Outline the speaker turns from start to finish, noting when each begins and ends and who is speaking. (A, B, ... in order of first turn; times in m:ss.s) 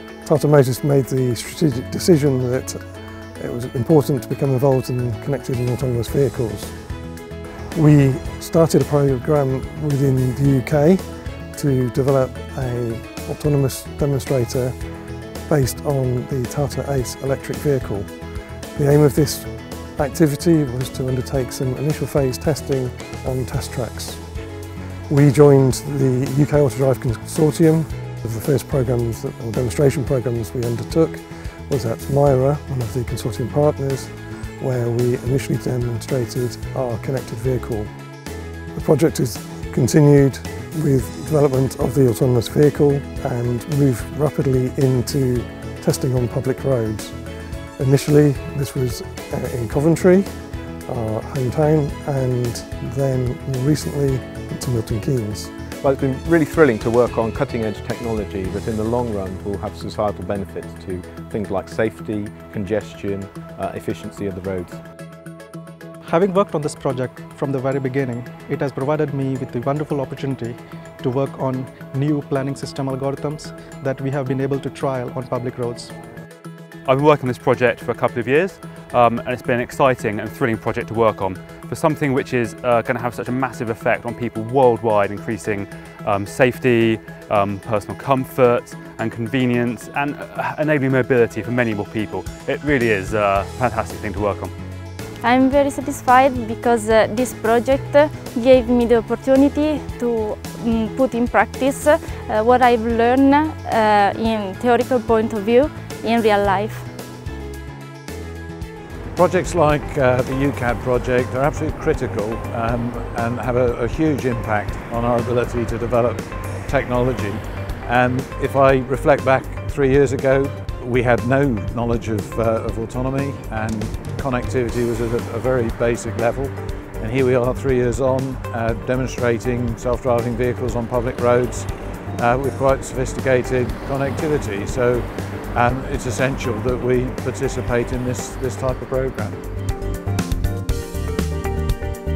0:00.2-0:06.8 A
0:07.7-0:14.8 A
0:15.5-0:18.2 A
0:18.7-0:24.2 A
0:25.1-0:37.9 A
0:38.7-0:47.2 A
0:47.8-0:50.3 A
0:50.9-0:55.6 A
0:55.8-1:04.8 B
1:06.0-1:15.9 C
1:16.8-1:34.5 D
1:35.2-1:46.9 E
1:49.1-2:19.4 F